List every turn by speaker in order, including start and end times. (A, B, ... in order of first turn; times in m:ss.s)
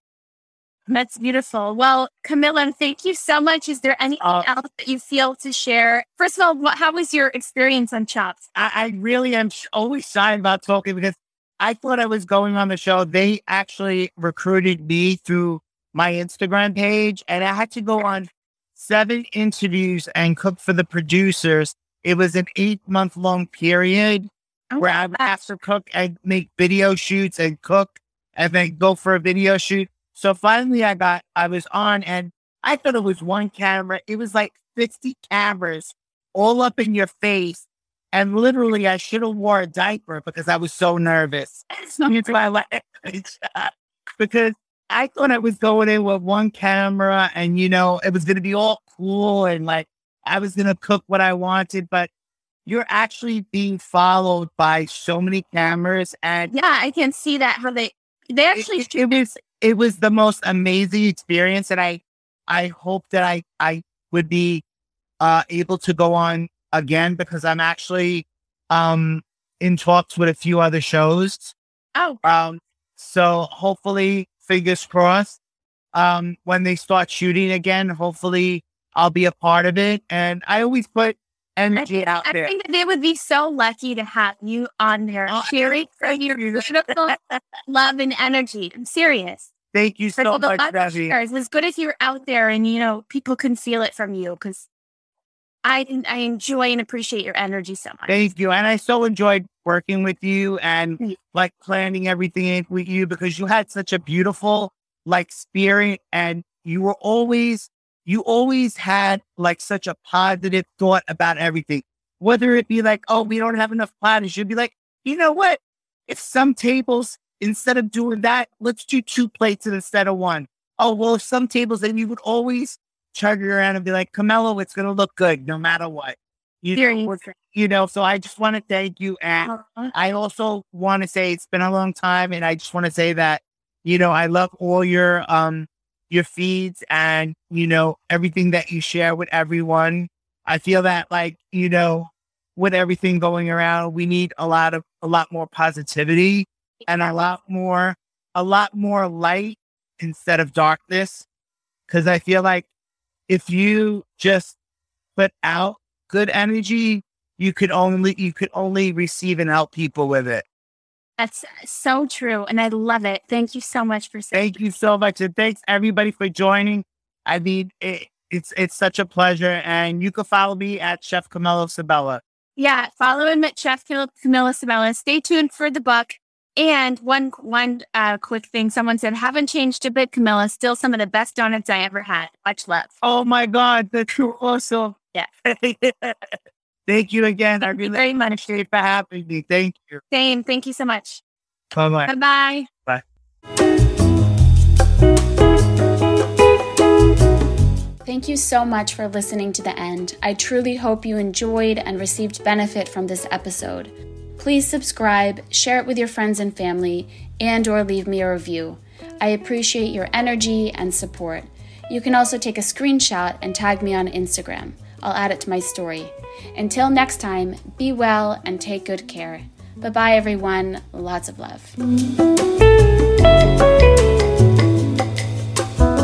0:00.9-0:08.5 A
0:04.2-0:04.5 B
0:08.6-0:52.1 B
0:24.7-0:25.3 A
0:41.8-0:42.1 A
0:52.7-0:56.5 B
0:56.5-0:59.0 A
0:58.6-1:04.6 B
1:05.2-1:11.5 B
1:12.0-1:12.2 A
1:12.2-1:15.4 B
1:15.9-1:22.5 B
1:21.8-1:27.2 A
1:25.3-1:27.4 B
1:27.7-1:29.5 A
1:29.7-1:31.2 B
1:30.2-1:34.7 A
1:35.6-1:38.2 A
1:38.1-2:31.3 B
2:06.8-2:07.3 A
2:09.4-2:09.9 A
2:31.9-2:32.7 B
2:33.3-2:34.6 B
2:35.2-2:40.4 B
2:41.2-2:44.6 A
2:44.3-2:52.2 B
2:52.6-3:03.0 A
3:03.0-3:06.3 B
3:06.9-3:10.0 B
3:07.8-3:08.4 A
3:10.1-3:11.2 A
3:11.7-3:12.1 B
3:12.1-3:12.7 A
3:18.0-3:41.8 C